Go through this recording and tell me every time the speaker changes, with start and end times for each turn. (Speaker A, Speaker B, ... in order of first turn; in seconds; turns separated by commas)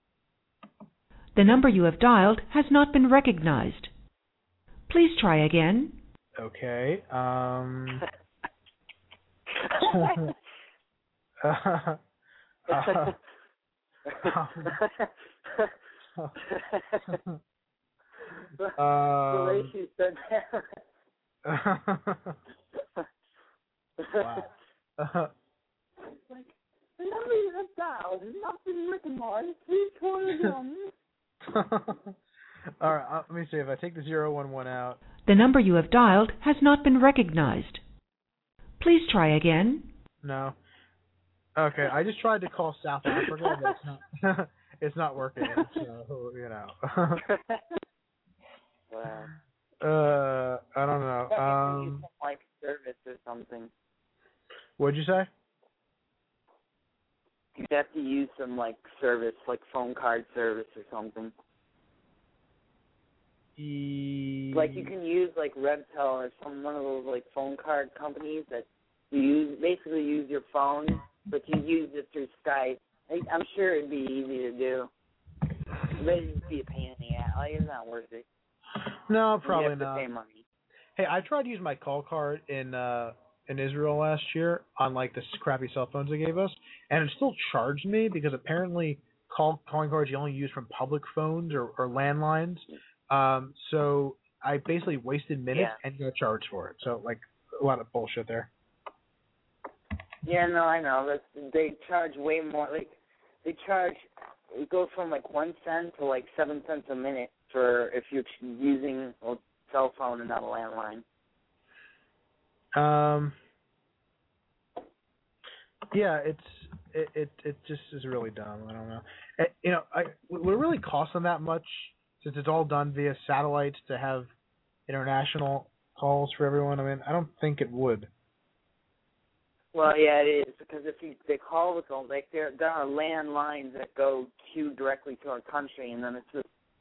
Speaker A: 1.4-3.9, Speaker A: 4.9-6.0, Speaker B: 6.4-8.1, Speaker C: 9.6-10.3, Speaker B: 9.8-10.3, Speaker B: 11.4-12.0, Speaker B: 12.7-13.1, Speaker C: 12.7-13.2, Speaker C: 14.1-15.7, Speaker B: 14.2-14.7, Speaker C: 16.4-17.2, Speaker B: 17.1-17.4, Speaker B: 18.8-19.7, Speaker C: 19.3-20.8, Speaker B: 21.4-22.4, Speaker C: 24.0-24.5, Speaker B: 24.2-25.3, Speaker C: 26.0-30.9, Speaker B: 31.4-32.2, Speaker B: 32.8-35.0, Speaker A: 35.2-37.8, Speaker A: 38.8-39.9, Speaker B: 40.2-40.6, Speaker B: 41.6-47.2, Speaker C: 45.4-45.8, Speaker C: 47.2-47.6, Speaker C: 48.9-49.3, Speaker B: 49.8-52.1, Speaker C: 51.3-53.7, Speaker B: 54.8-55.3, Speaker C: 57.6-61.3, Speaker B: 63.6-64.9, Speaker C: 64.5-74.9, Speaker C: 76.0-78.2, Speaker B: 79.1-80.1, Speaker C: 79.4-80.4, Speaker B: 81.0-98.5, Speaker C: 95.5-95.8, Speaker C: 100.2-111.0, Speaker B: 112.8-113.4, Speaker B: 115.9-124.3, Speaker B: 124.9-128.1, Speaker C: 129.7-136.5